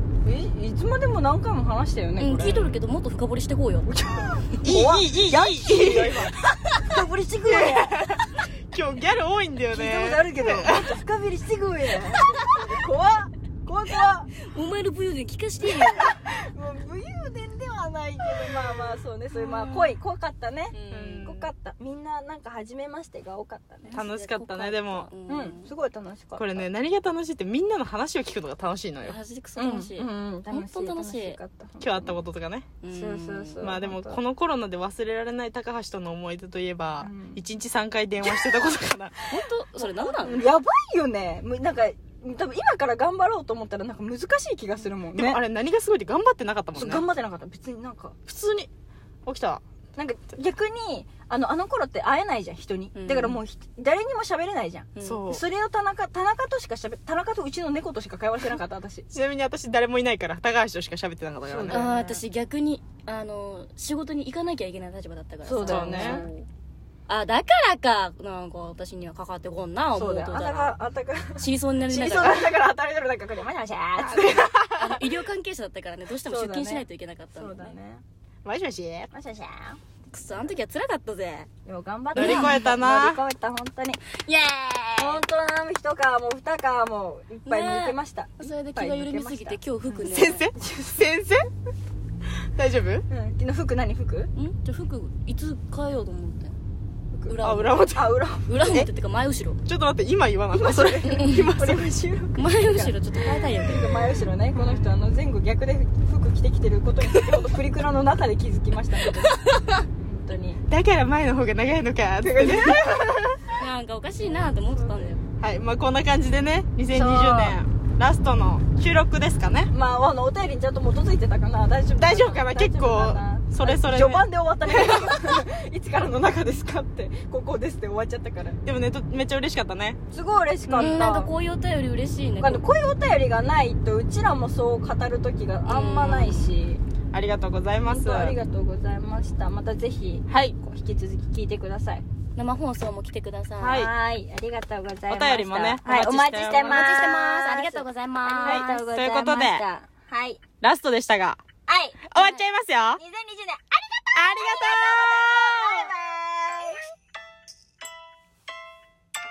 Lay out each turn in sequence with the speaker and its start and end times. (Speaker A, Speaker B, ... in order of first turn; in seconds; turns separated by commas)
Speaker A: 0.2-2.7, Speaker B: 2.2-3.9, Speaker A: 3.9-8.2, Speaker C: 4.6-6.3, Speaker C: 7.5-10.9, Speaker A: 9.7-14.3, Speaker B: 14.5-16.2, Speaker A: 15.8-24.0, Speaker C: 19.3-19.9, Speaker C: 20.9-21.5, Speaker B: 23.9-25.7, Speaker C: 23.9-25.1, Speaker A: 25.3-26.6, Speaker C: 26.4-29.2, Speaker B: 29.0-31.4, Speaker A: 29.6-32.2, Speaker C: 31.8-32.7, Speaker B: 32.8-33.7, Speaker A: 32.9-34.2, Speaker C: 33.6-39.3, Speaker A: 37.0-37.4, Speaker B: 39.3-40.5, Speaker A: 39.8-45.4, Speaker C: 45.2-47.0, Speaker A: 46.8-48.2, Speaker C: 48.3-48.7, Speaker C: 49.3-49.6, Speaker A: 50.0-59.1, Speaker B: 53.0-53.4, Speaker B: 55.0-55.2, Speaker C: 55.0-55.4, Speaker C: 59.1-61.9, Speaker A: 61.5-62.2, Speaker B: 61.7-66.5, Speaker A: 65.5-66.3, Speaker C: 65.7-66.3, Speaker B: 67.1-70.8, Speaker A: 69.9-75.0, Speaker B: 71.4-72.5, Speaker B: 74.7-77.7, Speaker A: 76.2-78.0, Speaker C: 78.5-79.1, Speaker A: 79.1-79.8, Speaker B: 80.1-81.5, Speaker A: 81.7-84.0, Speaker C: 82.2-83.2, Speaker B: 82.2-82.7, Speaker B: 84.1-85.2, Speaker A: 85.0-89.6, Speaker B: 87.5-90.5, Speaker C: 89.9-91.5, Speaker A: 90.5-91.0, Speaker C: 92.5-93.0, Speaker A: 93.1-94.3, Speaker B: 94.4-96.6, Speaker A: 97.1-98.6, Speaker B: 97.3-97.9, Speaker C: 97.4-98.9, Speaker B: 98.5-99.6, Speaker C: 99.7-102.0, Speaker A: 100.5-109.4, Speaker B: 102.3-104.3, Speaker C: 104.6-104.9, Speaker B: 109.3-109.8, Speaker A: 110.0-110.6, Speaker C: 110.7-113.4, Speaker A: 112.2-113.4, Speaker B: 113.5-115.2, Speaker A: 114.2-115.2, Speaker C: 115.4-119.7, Speaker A: 116.9-117.6, Speaker A: 119.7-128.6, Speaker C: 122.0-125.0, Speaker C: 128.7-130.0, Speaker A: 130.1-131.3, Speaker C: 130.7-131.1, Speaker B: 130.8-132.6, Speaker A: 132.4-136.8, Speaker B: 135.7-136.5, Speaker C: 137.1-138.4, Speaker A: 137.9-142.1, Speaker C: 140.3-140.6, Speaker B: 142.4-143.9, Speaker C: 143.6-143.9, Speaker A: 143.7-150.4, Speaker C: 145.1-147.0, Speaker B: 146.6-148.8, Speaker C: 148.4-149.6, Speaker C: 150.6-151.4, Speaker A: 151.7-152.1, Speaker C: 152.1-153.0, Speaker B: 152.2-152.4, Speaker A: 153.0-156.8, Speaker C: 154.1-155.9